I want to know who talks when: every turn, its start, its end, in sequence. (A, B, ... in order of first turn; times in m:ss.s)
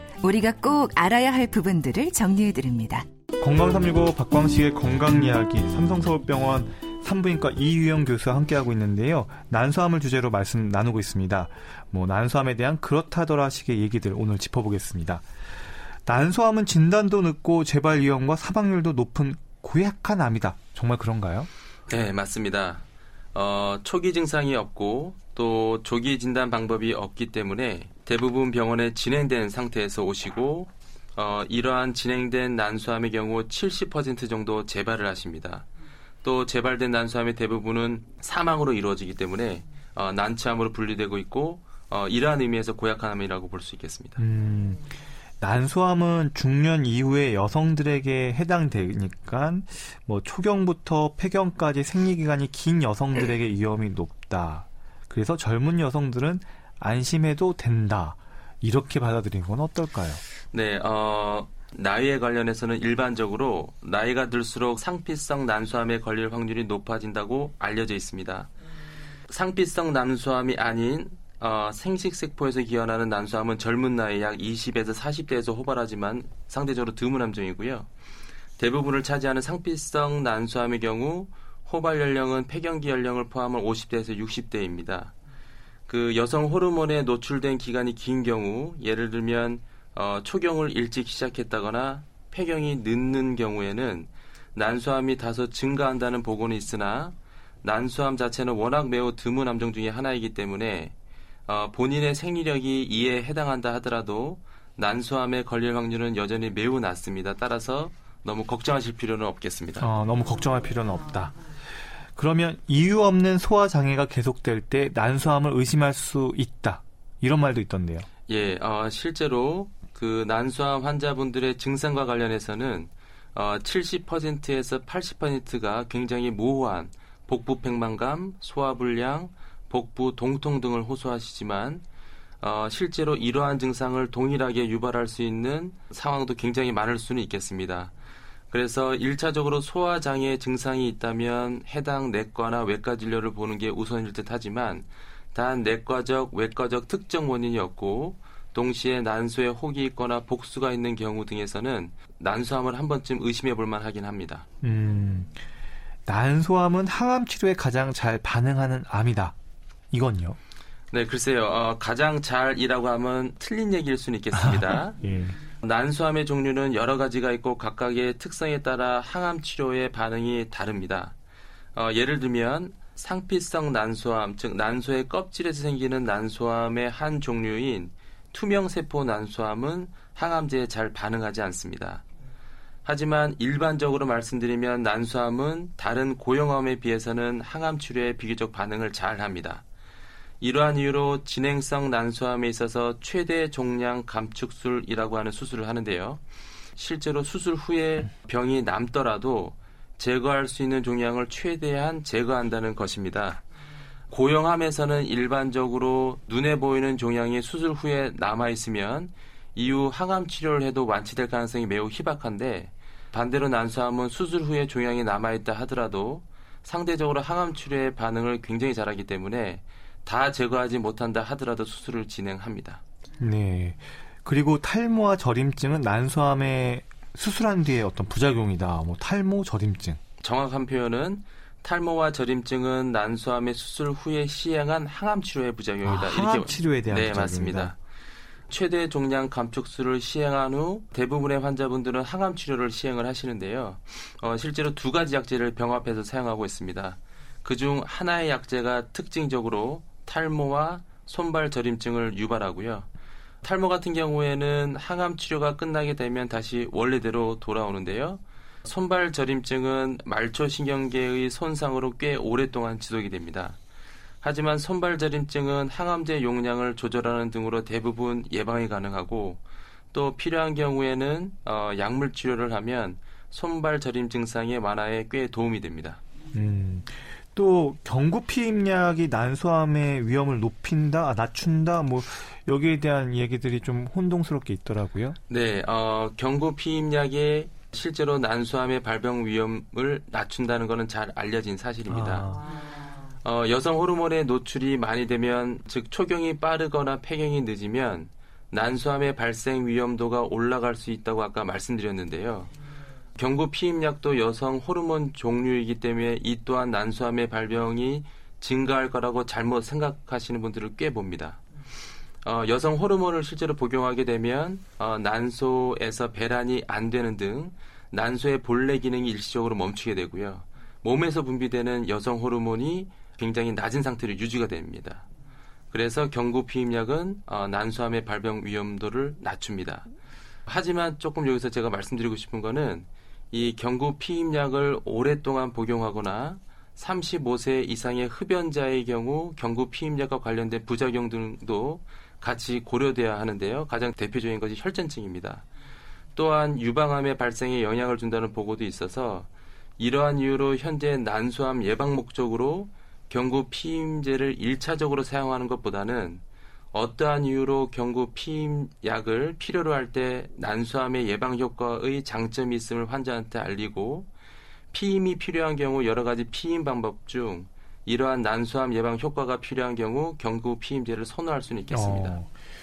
0:00.2-0:03.0 A
0:03.4-0:15.2 B
0:16.1-0:21.5 B
0:21.9-0:35.7 C
0:36.2-0:44.2 C
0:44.2-1:00.2 B
1:00.5-1:08.5 C
1:09.3-1:17.9 C
1:18.6-1:25.1 C
1:25.9-1:41.0 C
1:41.5-1:49.9 C
1:49.8-1:51.4 B
1:52.2-1:58.1 B
1:58.3-2:11.8 C
2:12.4-2:17.9 C
2:18.5-2:34.4 C
2:34.6-2:35.4 B
2:36.1-2:39.3 B
2:39.9-2:40.4 B
2:40.9-2:51.2 C
2:44.3-2:45.4 B
2:51.8-3:02.0 C
3:02.8-3:09.6 C
3:10.4-3:16.2 C
3:16.8-3:23.4 C
3:24.1-3:42.8 C
3:43.2-3:50.0 B
3:50.2-3:57.8 C
3:55.8-3:57.7 B
3:58.5-4:12.9 C
4:13.4-4:23.6 C
4:24.2-4:36.0 C
4:36.3-4:45.2 B
4:45.3-4:52.3 C
4:51.9-4:52.4 B
4:53.2-5:02.5 C
5:03.2-5:11.4 C
5:12.2-5:25.0 C
5:25.7-5:29.9 C
5:30.5-5:45.5 C
5:46.2-6:04.1 C
6:04.7-6:12.2 C
6:11.7-6:12.3 B